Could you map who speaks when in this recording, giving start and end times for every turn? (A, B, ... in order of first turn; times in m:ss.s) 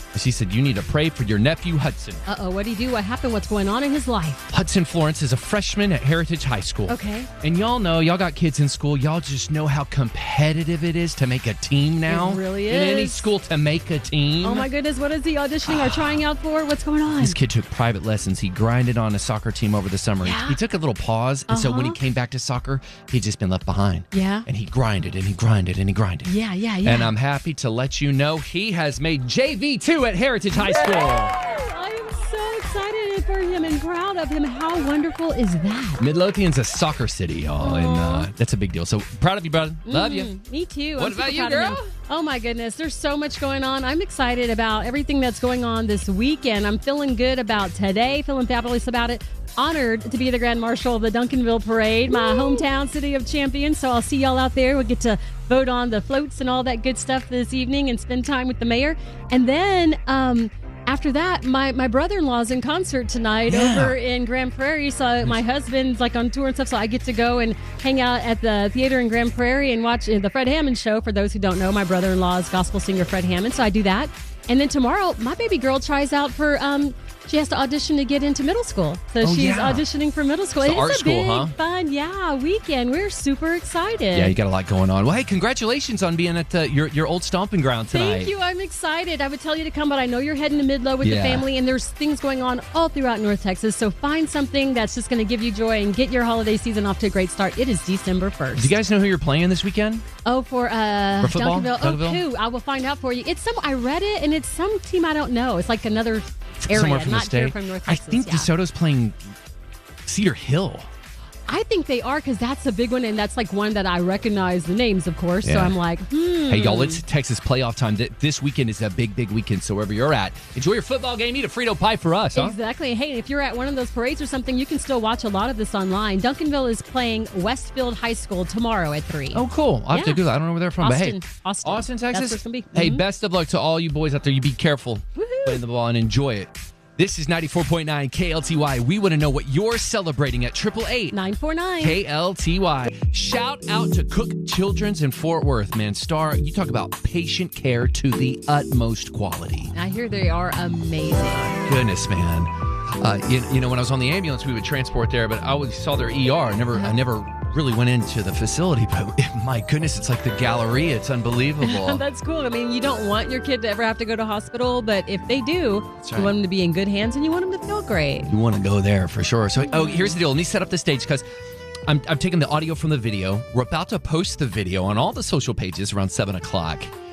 0:00.1-0:02.2 A
0:02.3-0:04.5 B
0:04.5-0:14.7 A
0:06.9-0:07.3 B
0:12.1-0:13.3 B
0:14.4-0:17.4 B
0:15.6-0:16.2 A
0:17.2-0:26.3 A
0:20.2-0:20.6 B
0:21.5-0:22.0 B
0:24.1-0:24.5 B
0:26.2-0:27.1 B
0:26.8-0:31.4 A
0:30.6-0:36.0 B
0:36.0-0:40.3 A
0:37.6-0:38.3 B
0:39.9-1:24.3 B
0:41.0-0:41.8 A
1:03.5-1:04.0 A
1:19.2-1:19.9 A
1:20.6-1:21.6 A
1:24.1-1:28.3 A
1:27.9-1:38.8 B
1:31.0-1:31.5 A
1:38.6-1:40.0 A
1:40.2-1:48.5 B
1:41.2-1:42.2 A
1:46.6-1:49.2 A
1:50.1-1:50.9 A
1:51.5-1:57.0 B
1:55.4-1:55.8 A
1:56.5-2:02.6 A
2:02.4-2:10.2 B
2:09.3-2:21.2 A
2:10.8-2:13.0 B
2:15.2-2:15.6 B
2:21.1-2:22.0 B
2:21.8-2:29.7 A
2:29.7-2:31.6 B
2:31.6-2:42.0 A
2:41.6-2:48.3 B
2:46.0-2:46.4 A
2:48.3-2:51.2 A
2:51.9-2:56.9 A